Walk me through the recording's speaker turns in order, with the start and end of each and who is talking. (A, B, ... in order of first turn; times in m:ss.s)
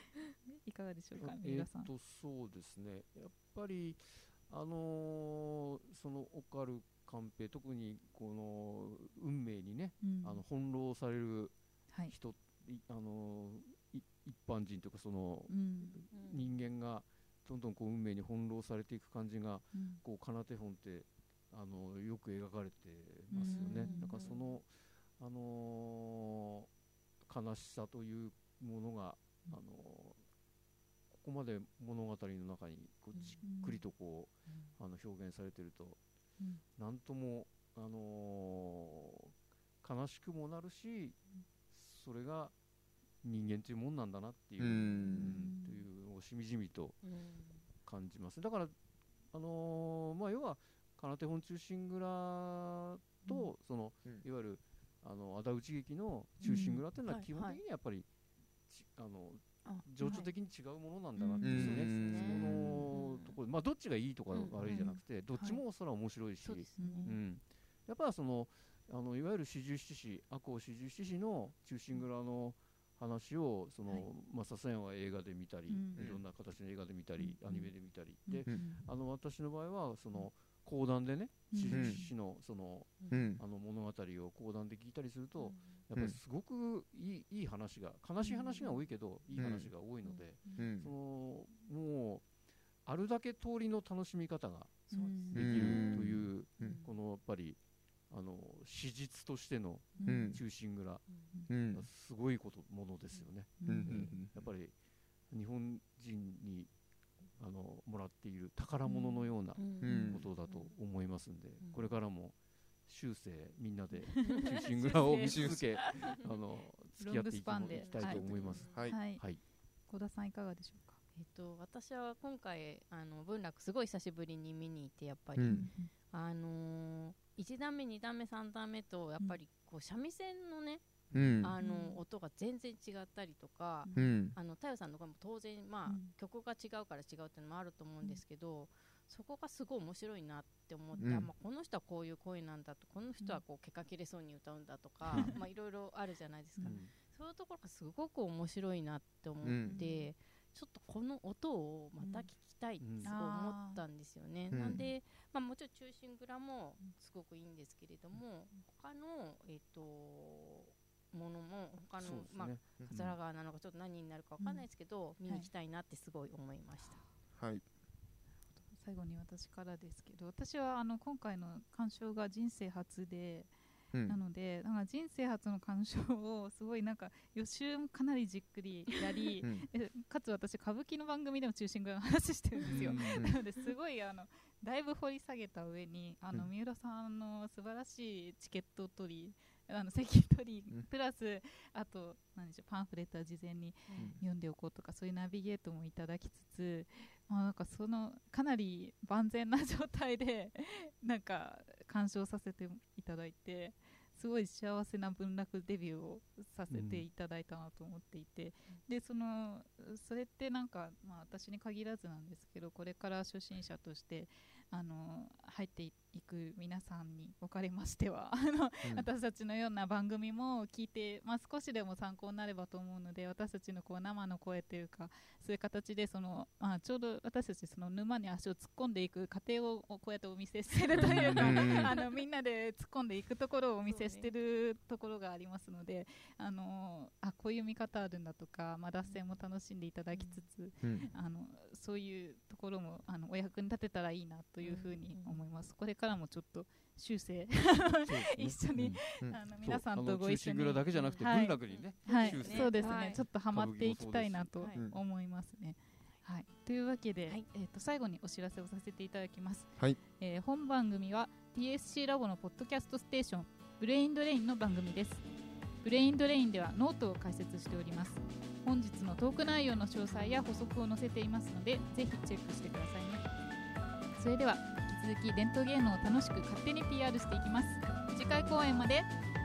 0:00.5-0:01.9 A
0:01.1-0:11.5 B
0:10.0-0:10.4 A
0:12.1-0:26.7 B
0:15.5-0:16.0 A
0:16.1-0:16.5 C
0:19.7-0:20.0 A
0:23.3-0:24.4 A
0:23.4-0:24.4 C
0:27.2-0:30.2 B
0:31.1-0:36.0 B
0:33.4-0:33.8 A
0:36.8-0:41.2 B
0:41.7-0:42.5 B
0:43.2-0:47.0 B
0:44.6-0:45.4 D
0:45.1-0:45.8 A
0:47.0-0:47.6 C
0:47.8-0:48.7 B
0:49.3-0:58.1 B
0:56.4-0:57.6 C
0:56.4-0:56.8 A
0:58.7-1:32.2 B
0:59.6-1:00.3 C
1:01.2-1:03.4 C
1:01.2-1:01.6 A
1:01.4-1:02.9 D
1:04.3-1:05.0 C
1:04.6-1:05.6 A
1:06.4-1:07.2 C
1:06.8-1:07.1 A
1:15.7-1:16.0 A
1:15.9-1:16.2 D
1:18.3-1:18.8 A
1:21.5-1:22.1 A
1:21.7-1:22.0 D
1:23.0-1:23.3 C
1:23.1-1:23.4 D
1:25.4-1:25.8 C
1:28.2-1:28.8 C
1:29.4-1:29.7 D
1:30.5-1:30.9 D
1:32.8-1:37.6 B
1:34.9-1:35.6 A
1:34.9-1:36.1 C
1:35.3-1:36.7 D
1:36.6-1:36.9 C
1:38.1-1:41.1 B
1:40.0-1:40.4 A
1:40.0-1:40.4 D
1:41.5-1:41.9 D
1:41.7-1:44.7 B
1:43.6-1:44.2 A
1:43.6-1:44.3 D
1:45.3-1:46.7 B
1:47.4-1:52.3 B
1:48.8-1:49.3 A
1:49.6-1:50.7 C
1:49.8-1:50.3 D
1:49.8-1:50.1 A
1:51.6-1:51.9 C
1:52.9-1:59.4 B
1:54.1-1:55.8 A
1:55.2-1:55.6 D
1:57.0-1:59.2 A
1:57.7-1:58.8 C
1:58.6-1:59.0 D
1:59.9-2:01.0 A
2:01.1-2:10.8 C
2:05.4-2:05.6 D
2:05.4-2:05.9 A
2:11.1-2:11.4 B
2:11.1-2:11.5 D
2:11.4-2:47.0 C
2:11.6-2:12.0 A
2:13.8-2:14.1 A
2:13.9-2:14.3 D
2:15.9-2:16.1 A
2:21.0-2:21.3 D
2:25.1-2:25.4 A
2:26.6-2:26.9 B
2:29.4-2:29.8 D
2:29.7-2:30.1 A
2:32.0-2:32.3 A
2:32.8-2:33.1 B
2:33.0-2:33.8 A
2:34.5-2:34.9 D
2:42.0-2:42.8 B
2:42.8-2:43.1 D
2:44.4-2:44.6 A
2:47.4-2:47.6 D
2:48.7-2:53.5 A
2:53.9-2:54.2 D
2:54.1-4:25.2 A
3:02.6-3:03.1 B
3:02.6-3:03.4 D
3:13.9-3:14.1 C
3:26.7-3:27.0 B
3:38.8-3:39.1 D
3:51.1-3:51.9 C
3:51.3-3:51.9 D
3:53.8-3:54.3 C
4:00.8-4:01.1 D
4:04.6-4:05.4 C
4:08.0-4:09.0 B
4:09.6-4:14.5 B
4:11.7-4:13.2 C
4:14.6-4:14.8 C
4:14.7-4:15.0 D
4:25.8-4:33.3 A
4:34.1-4:39.1 A